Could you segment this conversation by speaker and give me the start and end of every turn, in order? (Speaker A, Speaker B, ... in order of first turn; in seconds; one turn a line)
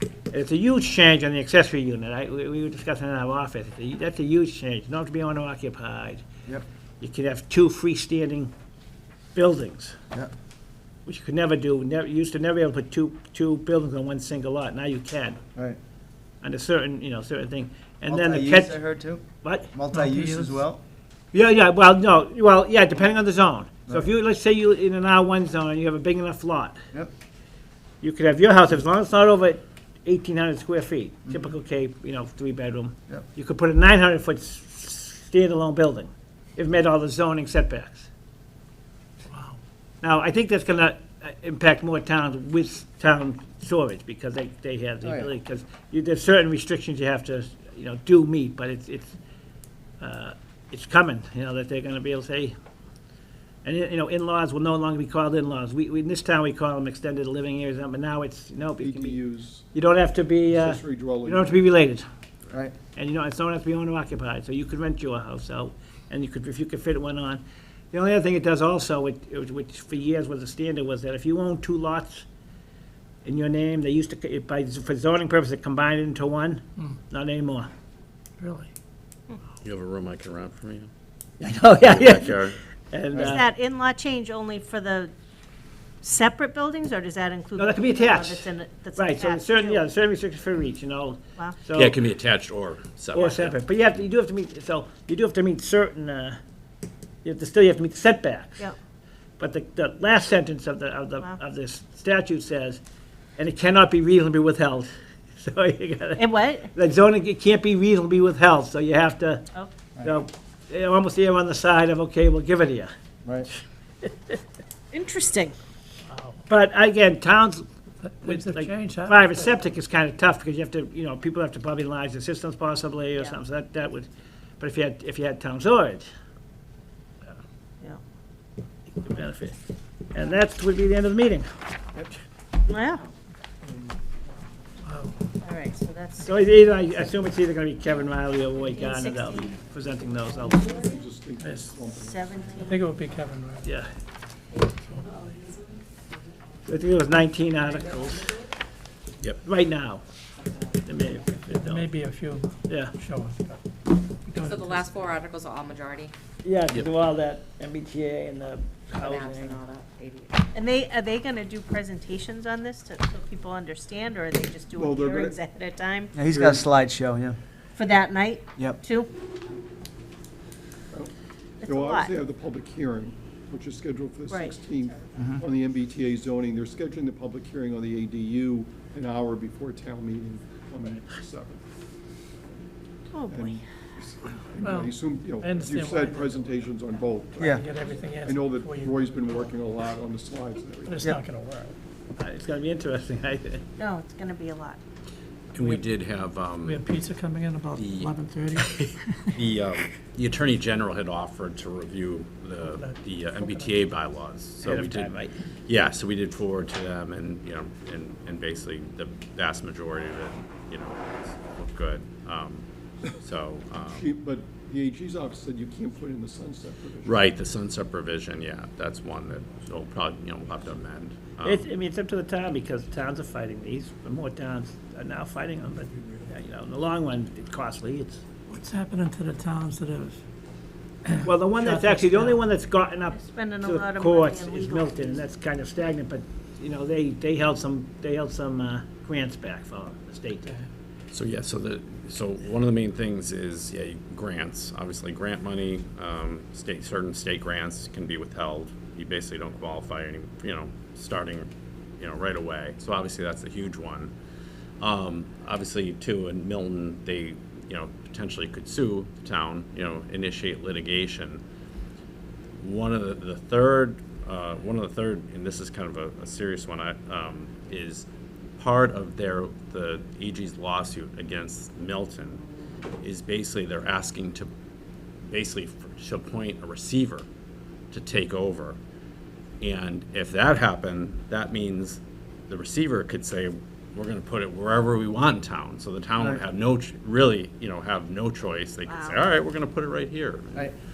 Speaker A: 0.3-6.2
Speaker A: 7.0-8.5
Speaker A: 9.3-9.9
Speaker A: 11.1-15.4
Speaker A: 16.4-18.8
Speaker B: 18.1-20.8
Speaker A: 19.4-19.7
Speaker C: 19.9-20.6
Speaker A: 21.3-26.8
Speaker A: 28.0-38.1
Speaker C: 39.3-39.6
Speaker A: 40.0-49.1
Speaker B: 45.0-45.3
Speaker A: 50.0-52.5
Speaker A: 53.6-59.2
Speaker D: 58.8-59.7
Speaker A: 59.7-62.0
Speaker D: 60.5-61.6
Speaker A: 62.9-72.2
Speaker A: 73.2-77.7
Speaker C: 78.4-78.7
Speaker E: 79.6-80.9
Speaker A: 81.4-83.5
Speaker E: 81.7-82.6
Speaker F: 83.2-85.1
Speaker F: 86.0-89.8
Speaker A: 87.5-92.0
Speaker E: 91.7-93.5
Speaker A: 93.1-96.4
Speaker A: 97.2-98.7
Speaker A: 99.4-102.8
Speaker A: 103.4-109.5
Speaker F: 106.2-106.7
Speaker A: 110.0-112.9
Speaker A: 114.0-114.3
Speaker F: 114.9-115.5
Speaker C: 116.1-116.4
Speaker A: 116.5-117.6
Speaker C: 118.0-119.5
Speaker A: 118.2-124.1
Speaker A: 124.6-126.1
Speaker A: 128.9-129.5
Speaker A: 130.1-131.5
Speaker F: 132.7-133.1
Speaker D: 133.6-134.0
Speaker C: 134.8-135.1
Speaker F: 135.4-136.3
Speaker A: 136.2-140.7
Speaker F: 138.7-139.4
Speaker D: 140.5-142.6
Speaker C: 141.4-141.7
Speaker F: 141.9-142.8
Speaker C: 142.6-143.7
Speaker C: 144.9-145.2
Speaker A: 146.7-148.4
Speaker A: 149.4-150.0
Speaker A: 150.8-151.9
Speaker C: 151.5-153.6
Speaker A: 152.7-152.9
Speaker C: 154.2-155.1
Speaker G: 154.4-156.1
Speaker A: 156.4-159.6
Speaker G: 158.9-160.3
Speaker F: 160.5-166.2
Speaker D: 164.7-165.4
Speaker B: 166.1-167.4
Speaker D: 166.2-166.6
Speaker F: 167.8-169.1
Speaker F: 171.6-172.1
Speaker D: 171.6-181.6
Speaker F: 174.3-175.0
Speaker B: 175.1-175.4
Speaker F: 183.1-183.6
Speaker D: 183.3-191.0
Speaker C: 184.6-186.7
Speaker C: 187.3-189.5
Speaker C: 190.8-191.8
Speaker A: 192.2-193.6
Speaker F: 193.8-194.8
Speaker E: 195.5-196.8
Speaker C: 196.6-199.4
Speaker E: 197.8-198.2
Speaker E: 199.3-214.1
Speaker C: 202.6-203.7
Speaker A: 204.6-205.3
Speaker D: 213.9-217.2
Speaker E: 217.0-221.7
Speaker A: 221.4-228.2
Speaker C: 228.5-230.2
Speaker C: 231.1-232.4
Speaker A: 231.2-240.5
Speaker F: 233.1-235.2
Speaker E: 241.1-251.5
Speaker E: 252.0-254.1
Speaker E: 254.8-261.4
Speaker E: 262.6-268.1
Speaker E: 268.6-272.4
Speaker E: 273.0-274.5
Speaker E: 275.3-277.2
Speaker E: 277.9-278.8
Speaker E: 279.6-290.7
Speaker F: 288.9-289.2